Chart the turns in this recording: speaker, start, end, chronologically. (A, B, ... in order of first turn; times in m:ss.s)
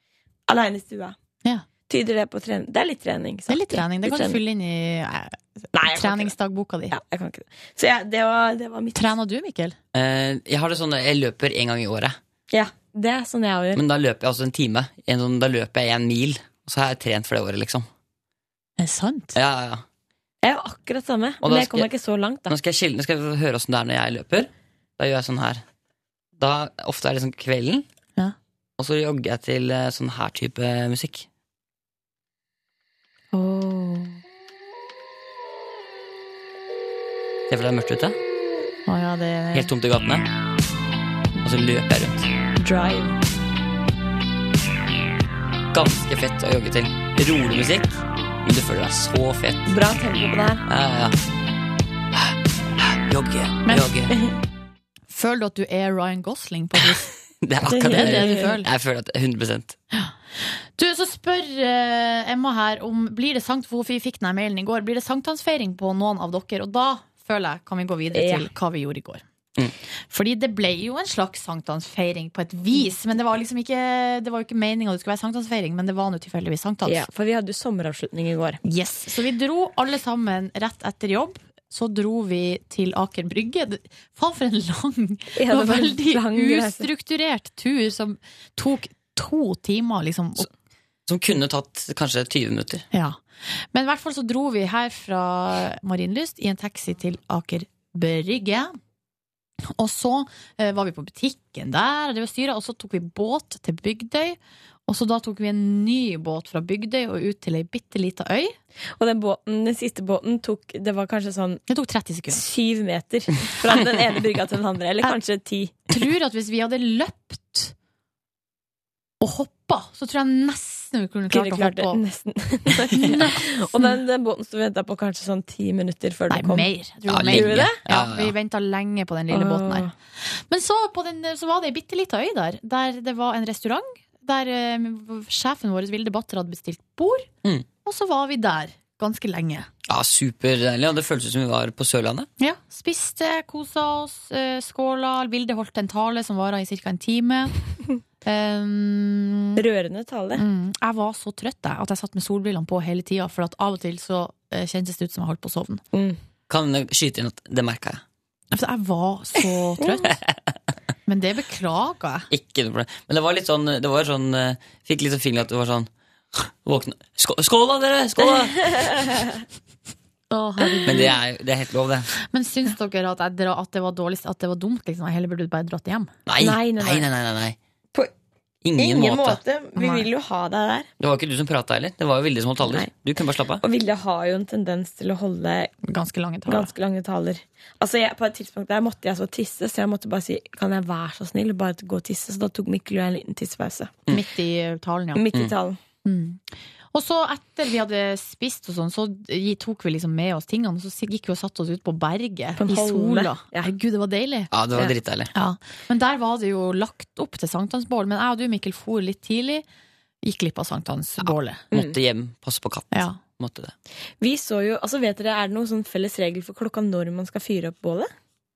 0:00.5-0:01.2 A
0:01.9-0:04.4 A
0:03.5-0:06.9 B
0:05.7-0:06.3 A
0:06.9-0:09.1 A
0:08.9-0:09.8 B
0:09.9-0:12.2 C
0:12.5-0:13.8 A
0:13.7-0:17.9 C
0:18.8-0:19.3 B
0:19.3-0:19.8 C
0:20.4-0:22.5 A
0:21.4-0:21.9 C
0:22.5-0:25.6 C
0:26.4-0:27.9 C
0:28.8-0:31.3 C
0:33.3-0:34.2 A
0:37.5-0:38.2 C
0:38.8-0:39.7 B
0:39.5-0:40.2 C
0:41.4-0:42.3 C
0:42.6-0:43.2 A
0:45.7-0:49.7 C
0:49.6-0:50.6 A
0:50.6-0:51.2 C
0:53.1-0:54.1 C
0:53.6-0:53.9 B
0:55.1-0:57.1 B
0:57.4-0:59.8 C
0:57.7-0:58.5 A
0:57.7-0:58.7 B
0:59.9-1:09.2 B
1:08.1-1:08.5 A
1:10.1-1:17.0 B
1:16.8-1:18.6 A
1:18.6-1:30.5 B
1:25.4-1:26.8 A
1:31.1-1:32.8 C
1:32.9-1:33.2 B
1:33.7-1:38.7 B
1:39.8-1:48.6 B
1:49.0-1:51.6 A
1:51.7-1:52.4 B
1:52.3-1:55.7 A
1:55.9-1:57.7 B
1:59.2-2:02.0 B
2:01.3-2:06.7 A
2:03.0-2:03.9 B
2:06.3-2:17.3 B
2:07.1-2:08.3 C
2:07.3-2:07.8 A
2:09.3-2:09.9 A
2:17.8-2:19.7 B
2:19.9-2:22.3 C
2:22.4-2:27.5 B
2:28.2-2:29.6 B
2:29.6-2:30.4 A
2:30.3-2:35.8 B
2:35.9-2:36.2 A
2:36.5-2:38.0 C
2:38.5-2:40.1 B
2:41.1-2:42.3 B
2:42.3-2:48.7 C
2:50.3-2:51.1 B
2:50.9-2:52.1 C
2:52.2-2:56.1 B
2:56.3-2:57.6 C
2:56.4-2:57.1 A
2:58.6-2:59.4 C
2:58.8-3:00.9 A
2:59.8-3:00.1 B
3:01.0-3:03.6 C
3:02.6-3:02.9 A
3:03.6-3:05.7 A
3:05.8-3:06.7 B
3:06.4-3:14.0 A
3:14.1-3:15.2 B
3:15.1-3:15.8 A
3:16.0-3:16.4 B
3:16.9-3:24.5 B
3:22.6-3:23.7 A
3:24.5-3:25.3 C
3:25.3-3:29.6 B
3:30.2-3:31.6 B
3:31.2-3:33.7 C
3:32.9-3:33.2 B
3:34.2-3:38.1 A